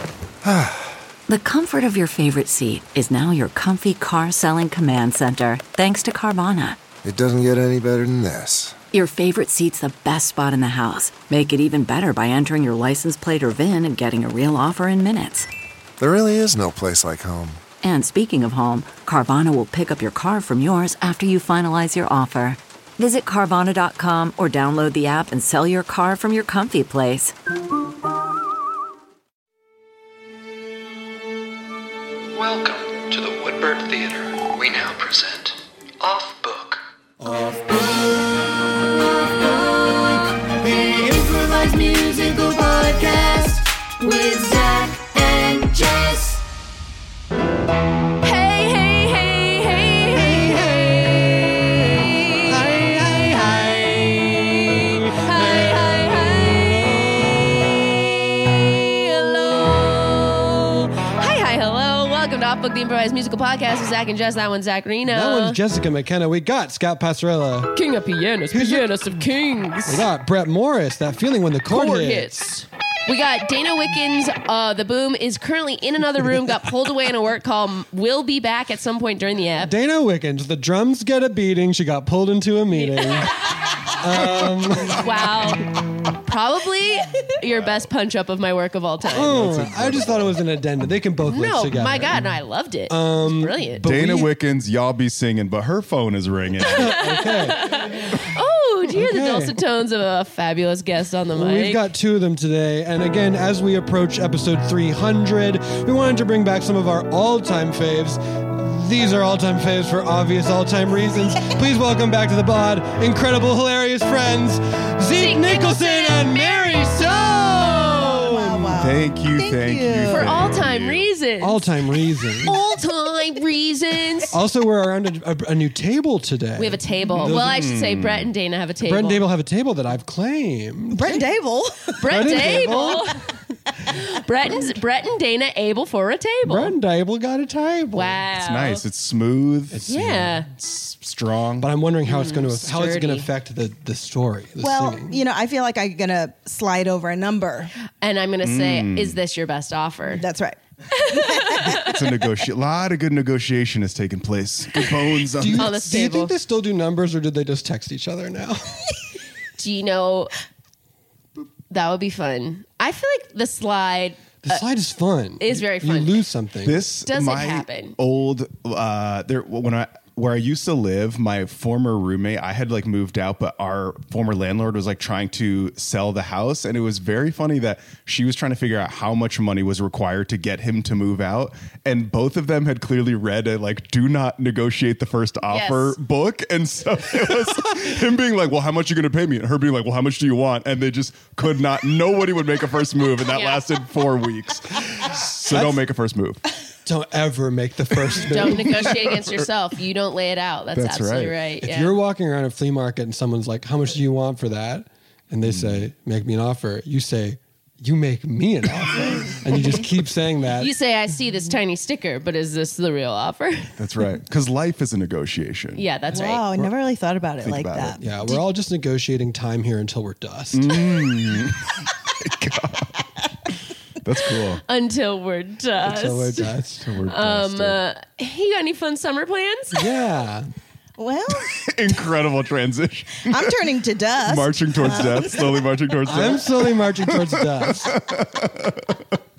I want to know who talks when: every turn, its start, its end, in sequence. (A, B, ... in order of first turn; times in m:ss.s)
0:00.4-0:00.9 A
0:01.3-0:06.8 B
0:07.0-0:08.8 A
0:08.9-0:15.5 B
0:16.0-0:17.6 A
0:17.8-0:27.3 B
0:32.3-0:36.9 C
0:44.2-0:44.6 D
0:48.2-0:52.8 E
0:50.2-0:51.0 F
0:52.5-0:57.3 F
0:54.1-1:05.6 E
1:05.1-1:07.7 F
1:07.7-1:10.1 E
1:08.5-1:09.2 F
1:09.8-1:12.4 F
1:11.7-1:19.7 E
1:19.6-1:25.0 F
1:22.7-1:23.3 E
1:24.9-1:29.6 E
1:29.1-1:32.4 F
1:29.4-1:30.3 G
1:31.2-1:33.8 E
1:32.9-1:34.4 F
1:33.8-1:37.0 G
1:36.6-1:37.8 F
1:36.8-1:41.8 E
1:38.9-1:39.6 F
1:41.3-1:58.8 F
1:55.1-1:57.9 E
1:57.9-2:00.3 D
1:58.8-2:01.1 G
2:00.1-2:01.8 E
2:01.4-2:02.6 F
2:02.4-2:04.4 E
2:04.3-2:07.7 F
2:06.6-2:09.2 E
2:07.2-2:08.3 G
2:08.8-2:11.3 F
2:10.9-2:12.0 D
2:12.0-2:13.2 E
2:12.0-2:13.1 F
2:13.9-2:16.7 E
2:16.4-2:18.2 F
2:17.9-2:18.8 E
2:18.3-2:21.7 G
2:19.7-2:20.3 F
2:19.9-2:20.5 E
2:21.6-2:25.2 F
2:22.1-2:23.3 E
2:24.6-2:27.7 D
2:28.0-2:30.2 E
2:28.4-2:29.2 G
2:30.1-2:31.9 D
2:31.0-2:31.9 E
2:31.8-2:35.7 G
2:35.4-2:39.0 F
2:35.5-2:36.3 E
2:39.6-2:40.3 E
2:41.7-2:44.6 E
2:44.4-2:46.9 F
2:45.4-2:46.2 E
2:46.6-3:16.4 G
2:47.0-2:47.9 E
3:05.5-3:06.0 E
3:13.2-3:13.6 E
3:15.5-3:15.8 F
3:16.8-3:18.9 F
3:18.2-3:19.4 G
3:18.3-3:21.9 E
3:20.7-3:21.4 G
3:21.6-3:30.7 F
3:25.4-3:25.8 G
3:30.6-3:33.7 E
3:33.8-3:35.8 G
3:35.7-3:36.5 E
3:36.1-3:38.0 D
3:37.4-3:38.0 G
3:38.0-3:40.8 F
3:40.5-3:43.1 G
3:44.0-3:44.6 G
3:44.6-3:46.5 E
3:45.8-3:46.9 F
3:46.8-3:47.8 G
3:47.1-3:49.8 E
3:49.7-3:50.5 F
3:51.0-3:52.0 D
3:51.5-3:53.6 G
3:53.2-3:55.5 D
3:54.2-3:59.0 G
3:56.0-3:58.0 F